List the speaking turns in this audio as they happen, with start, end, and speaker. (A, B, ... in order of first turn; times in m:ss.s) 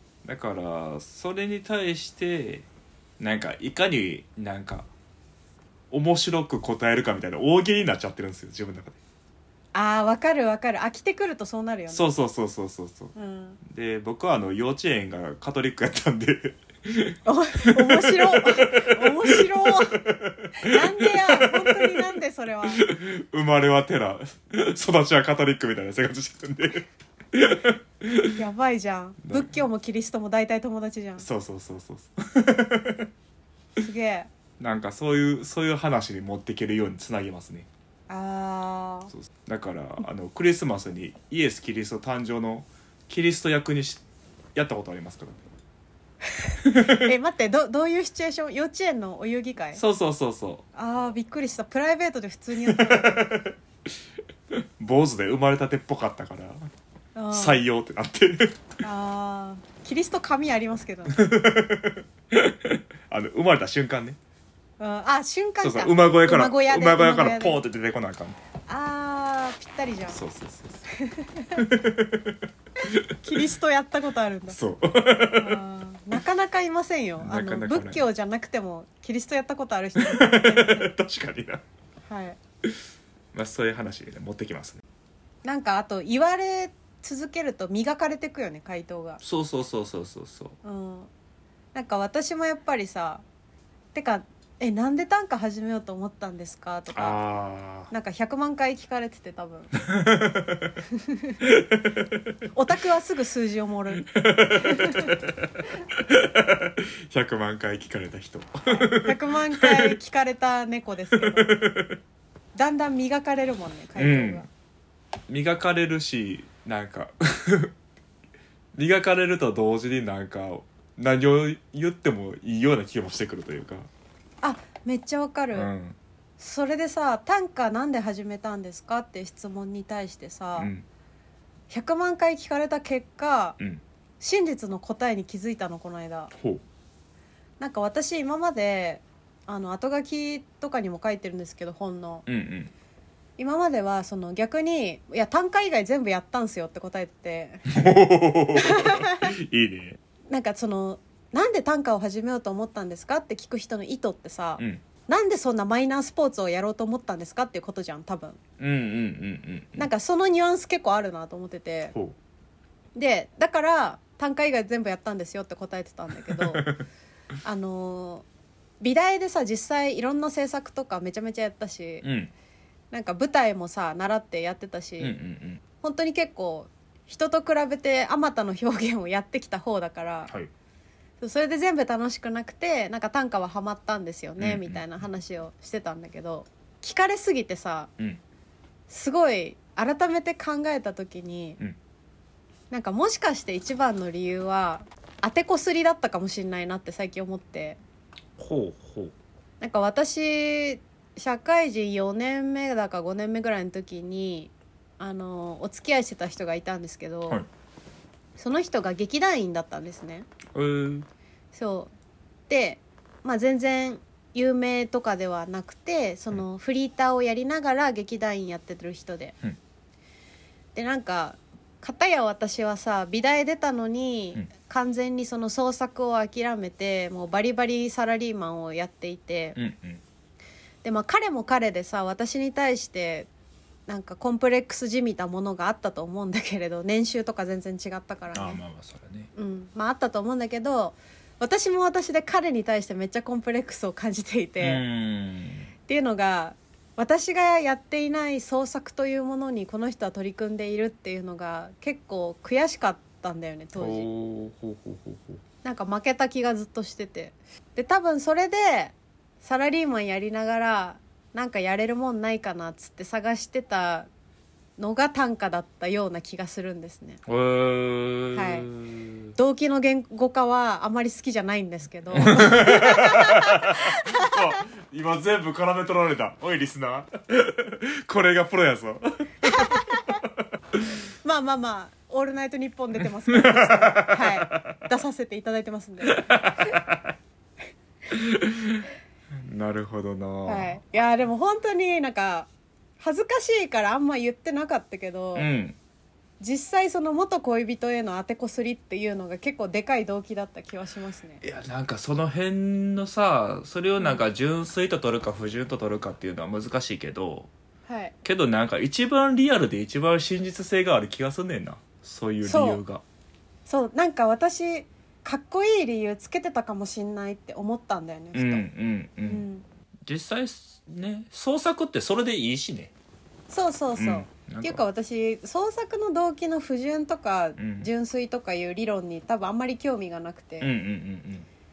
0:00.2-0:02.6 A
0:03.2-0:04.9 A
0:05.9-0:09.0 A
0:09.7-0:12.0 B
0:11.9-0:22.0 A
0:13.1-0:13.6 B
0:17.2-0:20.0 B
0:20.5-0:22.8 B
0:22.7-0:28.4 A
0:28.3-0:31.3 B
0:29.2-0:29.6 A
0:31.2-0:33.1 A
0:33.8-0:34.3 B
0:34.6-0:37.7 A
0:38.1-0:39.1 B
0:39.1-0:44.0 A
0:44.5-0:45.4 A
0:46.4-0:49.8 B
0:46.6-0:47.1 A
0:49.7-0:50.6 A
0:50.7-0:53.3 B
0:52.6-0:53.5 A
0:54.5-0:56.7 A
0:57.2-0:57.6 B
0:57.3-0:58.6 A
0:58.8-1:01.2 B
1:01.1-1:04.2 A
1:04.8-1:07.6 B
1:05.6-1:08.4 A
1:08.7-1:10.2 B
1:10.1-1:10.9 A
1:10.9-1:11.6 B
1:11.6-1:13.1 A
1:13.2-1:14.6 B
1:14.5-1:15.6 A
1:15.3-1:20.9 B
1:17.2-1:18.0 A
1:20.0-1:21.6 A
1:22.1-1:22.4 B
1:23.3-1:24.8 A
1:25.4-1:29.2 B
1:29.2-1:30.6 A
1:30.6-1:31.1 B
1:31.7-1:33.2 B
1:33.9-1:37.2 B
1:36.9-1:37.9 A
1:37.9-1:39.7 B
1:39.8-1:40.7 A
1:40.9-1:41.4 B
1:41.4-1:42.2 A
1:42.5-1:45.2 B
1:44.0-1:49.9 A
1:48.7-1:51.6 B
1:51.1-1:52.0 A
1:52.5-1:54.5 B
1:54.0-1:54.4 A
1:55.3-1:57.7 A
1:58.7-2:03.9 A
2:04.4-2:05.7 B
2:05.5-2:06.0 A
2:06.4-2:10.7 B
2:10.6-2:10.8 A
2:11.7-2:13.6 B
2:14.2-2:16.3 B
2:16.4-2:16.6 A
2:17.6-2:22.2 B
2:22.3-2:22.7 A
2:23.4-2:27.7 B
2:27.7-2:30.0 A
2:28.6-2:29.3 B
2:30.3-2:38.4 B
2:38.6-2:39.9 A
2:39.8-2:41.9 B
2:42.9-2:46.7 B
2:46.3-2:46.8 A
2:47.4-2:48.2 B
2:48.8-2:52.0 B
2:52.0-2:52.3 A
2:52.9-2:55.2 B
2:55.0-2:55.6 A
2:55.8-3:00.3 B
3:01.2-3:07.9 B
3:04.4-3:04.8 A
3:08.9-3:11.6 B
3:12.7-3:17.8 B
3:18.4-3:19.1 A
3:19.6-3:27.4 B
3:28.4-3:30.3 B
3:30.5-3:31.1 A
3:31.5-3:31.9 B
3:32.5-3:39.3 B
3:40.7-3:49.6 B
3:49.6-3:50.0 A
3:50.8-3:53.3 B
3:53.9-3:58.6 B
3:58.3-3:59.3 A
3:59.3-4:04.8 B
4:04.6-4:05.7 A
4:05.9-4:14.1 B
4:13.8-4:15.4 A
4:15.6-4:24.1 B
4:24.8-4:27.2 B
4:27.2-4:29.3 A
4:28.3-4:28.7 B
4:29.4-4:34.6 B
4:32.1-4:39.9 A
4:39.4-4:40.2 B
4:41.2-4:46.8 B
4:43.3-4:44.8 A
4:46.0-4:47.1 A
4:48.1-4:50.8 A
4:50.4-4:52.5 B
4:53.0-4:55.5 B
4:55.3-4:55.8 A
4:56.4-5:01.4 B
5:01.4-5:07.5 A
5:04.0-5:04.2 B
5:07.9-5:08.1 B
5:08.2-5:13.0 A
5:12.4-5:12.8 B
5:13.6-5:18.7 B
5:18.3-5:19.4 A
5:19.2-5:19.6 B
5:20.0-5:22.9 A
5:23.5-5:30.7 B
5:23.9-5:24.8 A
5:27.6-5:27.9 A
5:30.6-5:31.5 A